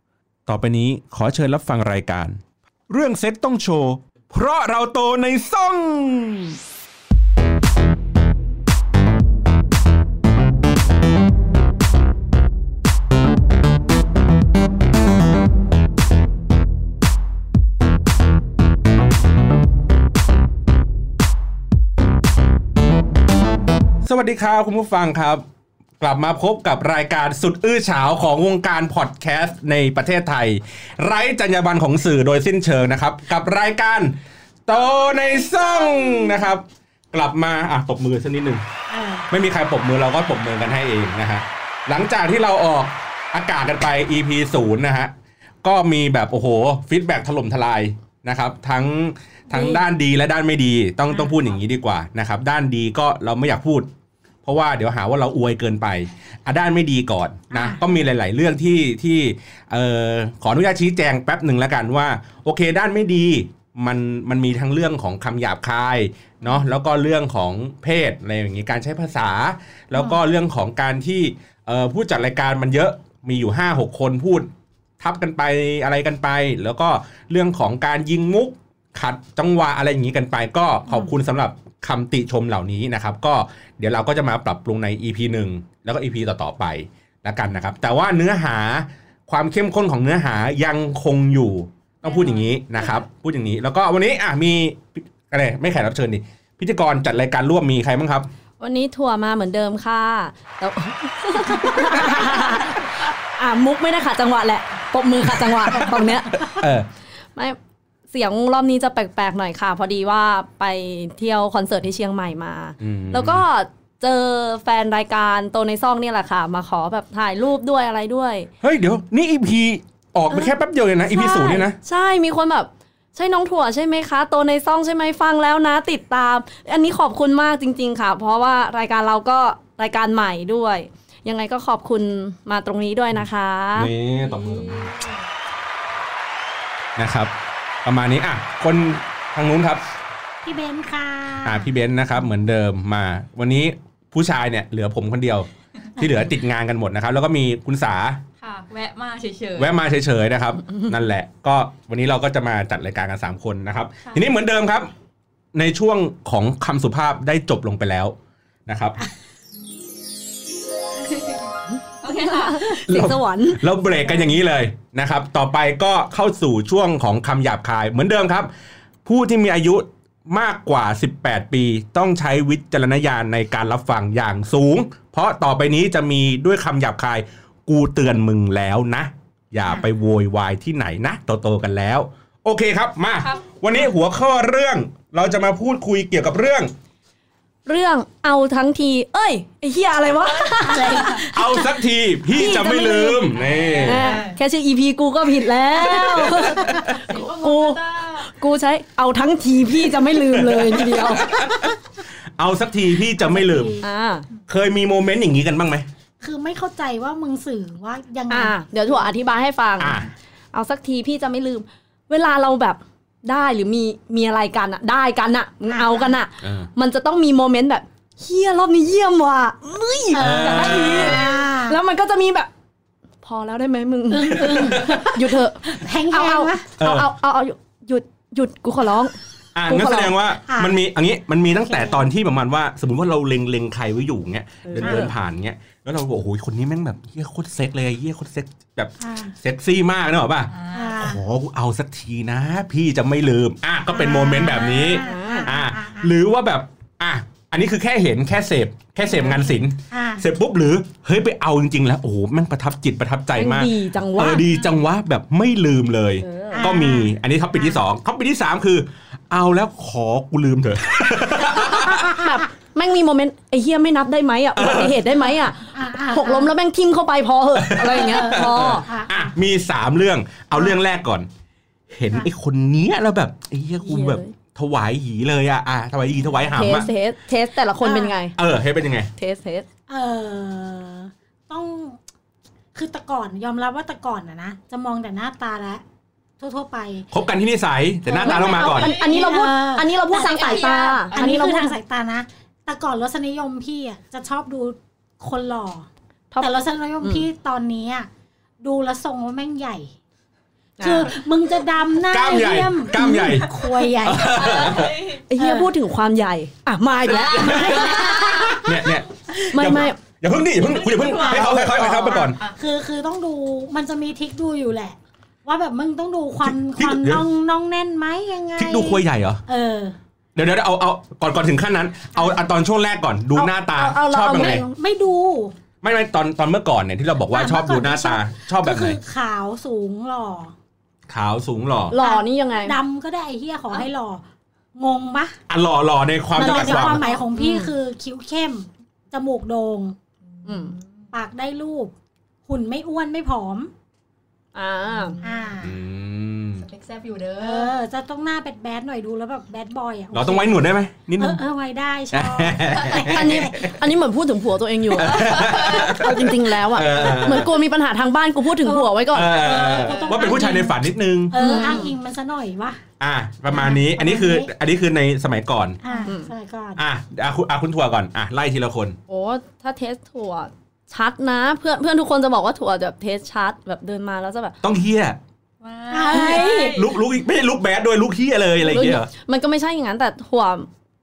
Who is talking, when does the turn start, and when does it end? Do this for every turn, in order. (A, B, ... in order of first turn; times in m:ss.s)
0:00.5-0:06.6 A
0:24.0-0:25.4 A
0:26.0-0:38.6 A
0:34.8-0:36.3 B
0:38.9-0:39.3 B
0:39.3-0:45.1 A
0:45.6-0:53.9 A
0:49.5-0:49.8 C
0:54.4-1:14.5 A
0:57.5-0:57.8 B
1:15.0-1:38.3 A
1:38.6-1:46.6 C
1:45.7-1:46.9 A
1:48.1-1:58.5 C
1:52.8-1:53.4 A
1:58.6-2:01.8 A
2:01.1-2:13.9 C
2:13.7-2:15.0 A
2:14.3-2:15.1 D
2:17.0-2:17.3 A
2:17.8-2:19.8 A
2:20.4-2:21.7 B
2:21.4-2:28.2 A
2:28.4-2:29.8 D
2:29.6-2:34.9 A
2:35.5-2:38.1 A
2:38.7-2:39.0 A
2:41.1-2:41.4 D
2:42.0-2:42.8 D
2:42.3-2:43.6 C
2:42.8-2:48.5 A
2:49.0-3:06.7 A
3:07.6-3:11.6 C
3:10.2-3:11.2 D
3:10.7-3:11.6 B
3:11.3-3:14.1 A
3:12.3-3:13.3 C
3:13.3-3:14.4 D
3:13.8-3:21.3 C
3:16.3-3:18.3 D
3:20.3-3:21.7 A
3:22.4-3:23.8 A
3:23.2-3:23.8 B
3:23.8-3:24.2 C
3:24.5-3:25.8 A
3:26.2-3:29.0 B
3:28.3-3:30.0 C
3:29.8-3:30.1 A
3:30.5-3:42.5 C
3:35.7-3:36.1 B
3:36.4-3:36.7 A
3:40.1-3:41.8 B
3:40.1-3:41.2 A
3:43.2-3:49.1 C
3:44.1-3:46.6 B
3:44.3-3:45.1 A
3:46.8-3:47.1 A
3:49.5-4:22.1 A
3:49.6-3:50.2 C
3:50.5-3:50.8 B
3:51.6-3:52.1 B
3:54.6-3:55.1 C
3:54.8-3:55.1 B
3:59.0-3:59.3 B
4:00.5-4:01.1 D
4:00.7-4:01.2 B
4:03.9-4:06.1 B
4:05.0-4:05.5 C
4:09.9-4:10.2 B
4:13.3-4:14.5 C
4:16.2-4:16.8 C
4:16.5-4:17.8 B
4:21.4-4:28.9 C
4:24.6-4:25.0 A
4:25.7-4:26.5 B
4:27.5-4:31.3 A
4:27.9-4:29.3 B
4:31.9-4:36.9 A
4:33.8-4:34.3 C
4:36.5-4:38.3 C
4:37.8-4:38.2 B
4:38.4-4:39.1 A
4:39.2-4:39.6 C
4:39.9-4:42.0 B
4:42.7-4:45.8 B
4:46.4-4:47.0 B
4:47.1-4:48.9 A
4:48.1-4:55.9 B
4:48.1-4:51.8 C
4:51.0-4:51.5 D
4:56.3-4:57.2 C
4:56.4-4:58.1 B
4:58.6-4:59.9 B
5:00.8-5:01.1 C
5:00.8-5:04.8 B
5:02.1-5:05.0 A
5:04.4-5:05.2 D
5:05.3-5:08.0 C
5:05.4-5:05.7 B
5:07.1-5:08.6 D
5:07.4-5:08.8 B
5:07.4-5:07.9 A
5:08.6-5:12.4 A
5:09.5-5:10.0 C
5:10.7-5:12.6 D
5:11.3-5:12.3 C
5:12.5-5:19.9 B
5:16.4-5:17.2 A
5:18.6-5:19.4 A
5:20.4-5:24.6 A
5:22.1-5:22.4 B
5:23.3-5:24.7 C
5:24.3-5:25.5 B
5:25.8-5:29.0 A
5:27.3-5:30.5 B
5:31.1-5:31.9 A
5:31.9-5:32.8 C
5:32.0-5:34.2 B
5:34.7-5:35.4 B
5:35.5-5:37.0 A
5:36.4-5:37.7 C
5:36.4-5:40.0 B
5:40.4-5:41.0 D
5:40.4-5:40.7 C
5:41.1-5:41.9 B
5:42.4-5:43.7 B
5:44.5-5:45.2 C
5:45.1-5:45.5 D
5:45.2-5:45.8 B
5:45.6-5:46.6 A
5:46.6-5:47.7 D
5:47.4-5:50.7 B
5:50.1-5:51.4 A
5:51.2-5:53.7 B
5:52.1-5:53.7 A
5:53.0-6:00.7 C
5:54.9-5:57.5 A
5:55.3-5:55.8 D
5:58.6-6:00.8 B
5:59.1-6:01.3 A
6:01.3-6:02.8 B
6:01.3-6:01.9 C
6:03.0-6:05.8 A
6:03.5-6:04.5 B
6:05.8-6:06.8 B
6:06.0-6:06.3 C
6:06.8-6:09.0 A
6:09.1-6:14.6 C
6:14.6-6:15.2 A
6:15.6-6:17.0 D
6:15.9-6:16.8 B
6:16.1-6:19.1 A
6:18.6-6:20.7 C